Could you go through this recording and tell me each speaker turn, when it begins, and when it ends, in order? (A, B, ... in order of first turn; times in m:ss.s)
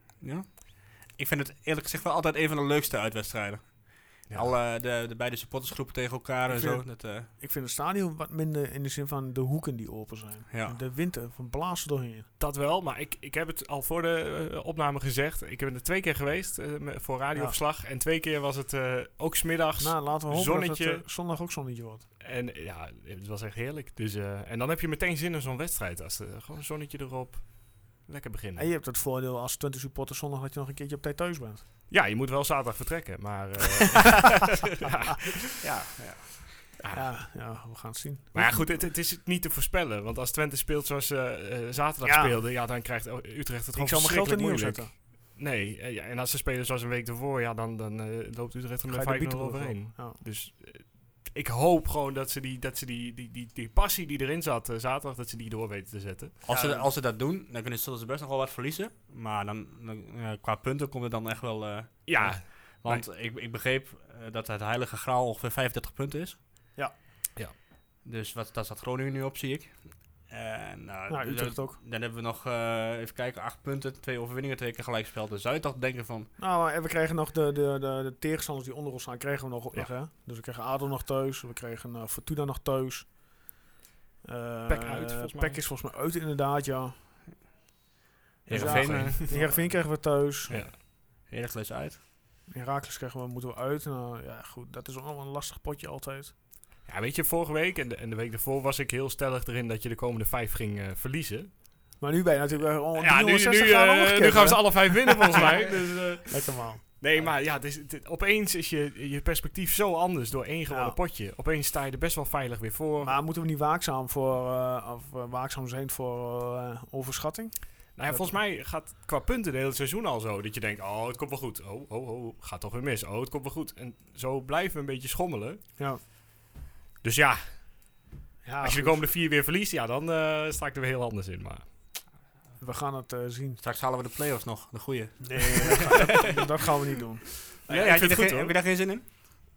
0:00.2-0:07.3 A
0:04.3-0:04.6 B
0:06.5-0:12.3 C
0:10.5-0:10.8 A
0:12.4-0:21.0 B
0:19.8-0:22.0 C
0:22.2-0:28.7 B
0:28.6-0:31.6 C
0:31.9-0:35.4 B
0:35.6-0:36.5 A
0:36.8-0:37.2 B
0:36.9-0:38.9 C
0:38.3-0:56.4 B
0:42.0-0:42.4 C
0:43.7-0:44.9 C
0:48.9-0:50.2 C
0:56.4-1:06.4 A
0:56.4-0:56.9 C
1:02.0-1:03.0 B
1:08.0-1:16.3 A
1:11.1-1:11.8 C
1:16.4-1:23.4 C
1:24.2-1:27.0 C
1:24.7-1:25.6 B
1:28.5-1:29.4 A
1:28.5-1:29.9 B
1:28.5-1:30.6 C
1:30.5-1:30.7 B
1:30.5-1:32.0 A
1:32.5-1:36.3 C
1:36.8-1:41.6 B
1:42.0-1:46.8 C
1:42.9-1:53.2 B
1:50.7-1:51.0 C
1:53.0-1:58.4 C
1:57.9-2:05.6 B
2:07.0-2:08.0 B
2:08.4-2:09.1 C
2:08.6-2:12.0 B
2:12.6-2:13.6 C
2:13.6-2:16.1 A
2:15.2-2:17.7 C
2:17.6-2:18.6 B
2:17.7-2:19.0 A